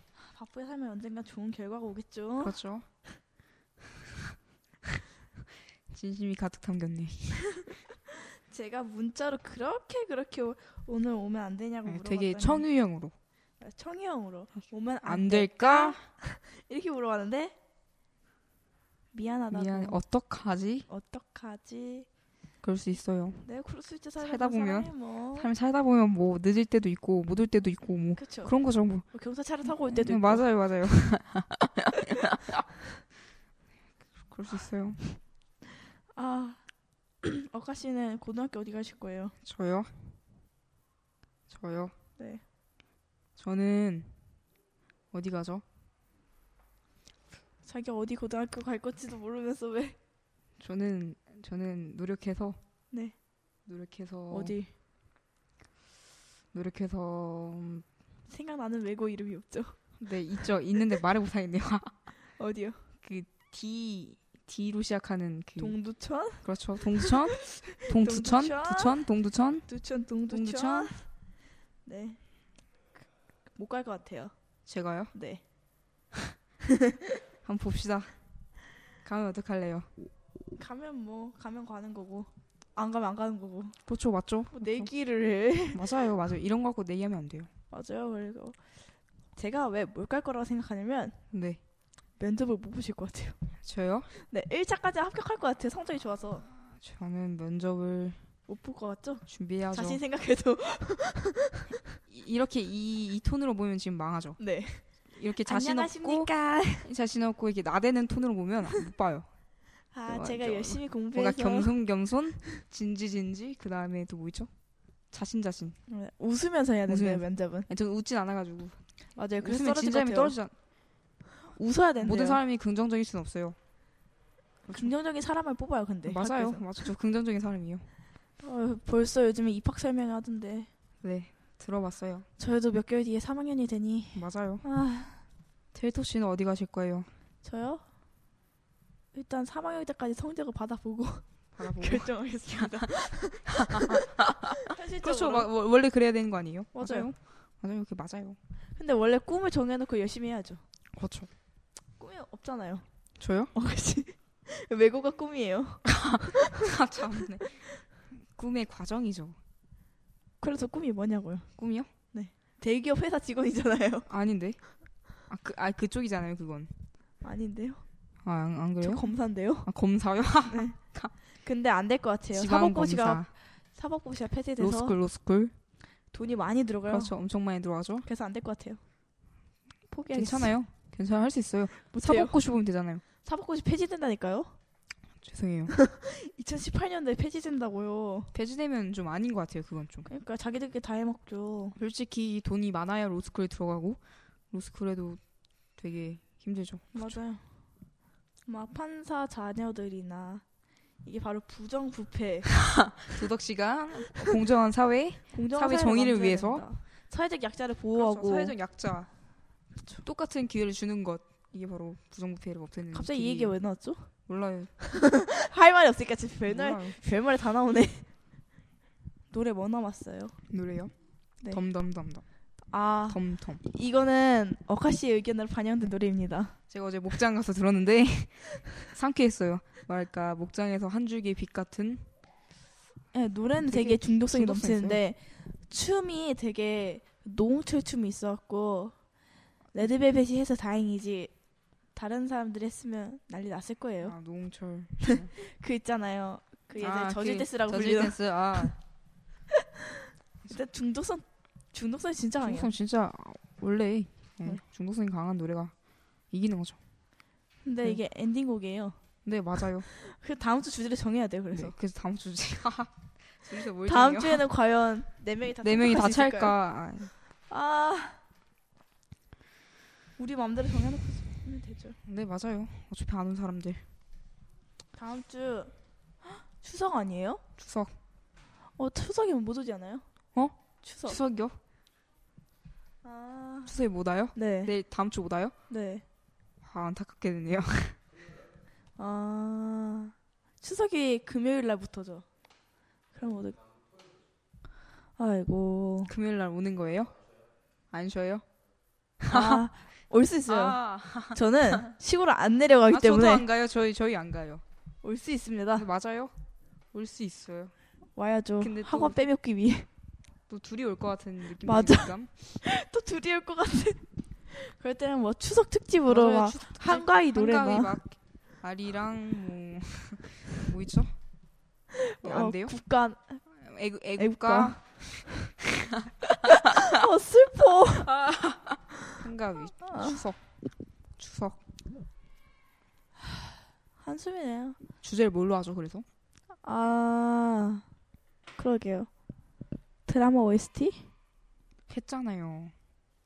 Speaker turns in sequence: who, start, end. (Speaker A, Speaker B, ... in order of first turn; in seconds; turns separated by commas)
Speaker A: 0.2-2.6, Speaker B: 2.4-2.8, Speaker B: 5.9-7.6, Speaker A: 8.5-12.6, Speaker B: 11.8-13.1, Speaker A: 13.6-17.6, Speaker B: 15.0-16.0, Speaker A: 19.1-20.0, Speaker B: 19.5-20.9, Speaker A: 20.9-22.1, Speaker B: 22.6-23.4, Speaker A: 23.4-25.5, Speaker B: 24.2-29.1, Speaker A: 28.2-28.5, Speaker A: 29.0-30.4, Speaker B: 29.7-32.6, Speaker B: 34.3-35.0, Speaker A: 36.1-36.6, Speaker A: 37.2-39.3, Speaker B: 39.4-39.9, Speaker B: 41.5-41.9, Speaker B: 43.4-44.1, Speaker B: 45.1-45.6, Speaker A: 47.6-50.0, Speaker B: 50.6-52.6, Speaker B: 53.6-54.5, Speaker A: 54.3-54.7, Speaker B: 56.5-57.8, Speaker A: 58.3-59.7, Speaker B: 60.0-61.9, Speaker A: 62.4-62.8, Speaker B: 63.0-65.8, Speaker A: 65.6-69.0, Speaker B: 66.4-69.7, Speaker A: 69.7-71.0, Speaker B: 70.3-70.9, Speaker A: 71.8-72.2, Speaker A: 73.5-74.3, Speaker B: 74.7-75.1, Speaker A: 75.1-75.4, Speaker B: 77.4-78.1, Speaker B: 79.0-79.9, Speaker A: 80.6-83.8, Speaker B: 83.8-84.9, Speaker A: 84.5-85.8, Speaker B: 85.7-87.5, Speaker A: 87.7-88.6, Speaker A: 89.3-91.2, Speaker B: 91.3-91.6, Speaker A: 92.2-93.4, Speaker B: 93.6-94.1, Speaker A: 94.2-96.4, Speaker B: 96.5-98.2, Speaker A: 98.5-101.7, Speaker B: 99.3-100.0, Speaker B: 102.1-104.4, Speaker A: 104.4-104.8, Speaker B: 105.1-106.3, Speaker A: 105.5-106.8, Speaker B: 106.8-109.3, Speaker A: 109.9-111.7, Speaker B: 110.1-114.5, Speaker B: 115.1-115.8, Speaker A: 115.9-117.7, Speaker B: 116.9-118.8, Speaker A: 119.2-120.3, Speaker B: 119.4-120.5, Speaker A: 121.5-122.4, Speaker B: 122.0-123.6, Speaker B: 124.7-124.9, Speaker A: 124.7-126.6, Speaker B: 126.0-127.9, Speaker A: 128.4-130.7, Speaker B: 131.0-132.3, Speaker A: 132.4-135.2, Speaker B: 134.1-134.6, Speaker B: 135.7-137.1, Speaker A: 137.4-137.8, Speaker A: 139.1-145.5, Speaker B: 141.6-148.4, Speaker A: 146.7-147.1, Speaker A: 148.8-150.6, Speaker B: 150.9-151.3, Speaker A: 152.0-152.8, Speaker B: 153.2-153.5, Speaker A: 153.5-156.7, Speaker B: 155.9-159.4, Speaker A: 160.4-161.5, Speaker B: 161.6-161.9, Speaker A: 162.1-164.1, Speaker B: 164.1-164.6, Speaker B: 165.3-166.7, Speaker A: 167.2-167.8, Speaker B: 168.2-169.1, Speaker A: 168.8-169.7, Speaker B: 169.6-171.1, Speaker A: 170.5-170.8, Speaker A: 171.4-174.9, Speaker B: 172.3-173.3, Speaker B: 174.6-175.5, Speaker A: 176.1-177.1, Speaker B: 176.9-178.1, Speaker A: 178.0-178.8, Speaker A: 179.9-180.5, Speaker B: 180.1-183.0, Speaker A: 181.9-182.4, Speaker A: 183.2-184.5, Speaker B: 185.2-185.7, Speaker A: 185.7-188.3, Speaker B: 188.3-190.1, Speaker A: 190.1-191.8, Speaker B: 191.8-194.0, Speaker B: 194.5-195.2, Speaker B: 195.8-197.2, Speaker A: 196.9-197.4, Speaker A: 198.5-200.4, Speaker A: 201.0-202.5, Speaker B: 202.7-206.7, Speaker A: 205.3-208.5, Speaker B: 207.9-209.1, Speaker B: 210.0-213.6, Speaker A: 212.9-214.1, Speaker B: 214.3-214.7, Speaker A: 214.8-218.1, Speaker B: 216.4-217.0, Speaker A: 219.3-220.3, Speaker B: 220.5-220.9, Speaker B: 221.5-222.2, Speaker A: 222.7-226.5, Speaker B: 223.1-223.6, Speaker B: 226.7-232.1, Speaker A: 233.1-238.9, Speaker B: 233.6-235.0, Speaker A: 239.7-241.3, Speaker A: 241.9-244.1, Speaker B: 244.0-245.3, Speaker A: 245.0-248.7, Speaker B: 246.8-248.7, Speaker A: 250.5-252.7, Speaker B: 252.4-255.7, Speaker B: 256.3-256.8, Speaker A: 257.6-259.0, Speaker B: 259.2-259.9, Speaker A: 259.9-261.7, Speaker B: 261.5-264.4, Speaker A: 263.9-266.5, Speaker B: 265.6-267.1, Speaker A: 267.5-268.2, Speaker A: 270.2-272.0, Speaker B: 272.1-273.8, Speaker A: 274.9-277.4, Speaker B: 277.6-277.9, Speaker A: 278.8-280.0, Speaker B: 280.3-281.6, Speaker A: 280.8-281.2, Speaker A: 283.0-283.7, Speaker B: 283.6-285.5, Speaker A: 284.3-284.7, Speaker A: 285.7-286.0, Speaker B: 286.6-288.0, Speaker A: 289.0-292.2, Speaker A: 293.1-293.6, Speaker A: 295.2-296.1, Speaker B: 296.1-297.1, Speaker B: 297.9-298.4, Speaker B: 299.2-299.7, Speaker A: 299.3-300.8, Speaker B: 300.5-301.9, Speaker A: 301.3-303.4, Speaker B: 302.9-304.6, Speaker A: 305.0-305.9, Speaker B: 305.7-306.3, Speaker B: 306.9-307.7, Speaker A: 308.1-309.9, Speaker B: 308.6-309.2, Speaker B: 310.5-312.3, Speaker A: 311.6-317.9, Speaker B: 316.1-321.1, Speaker A: 322.0-323.4, Speaker B: 322.2-322.7, Speaker B: 323.5-326.6, Speaker A: 324.2-324.8, Speaker A: 326.5-328.1, Speaker B: 328.0-330.4, Speaker A: 329.8-330.2, Speaker B: 331.2-331.6, Speaker A: 334.0-334.8, Speaker B: 335.0-336.0, Speaker A: 336.6-337.8, Speaker A: 338.6-339.1, Speaker A: 340.1-341.1, Speaker B: 341.9-342.7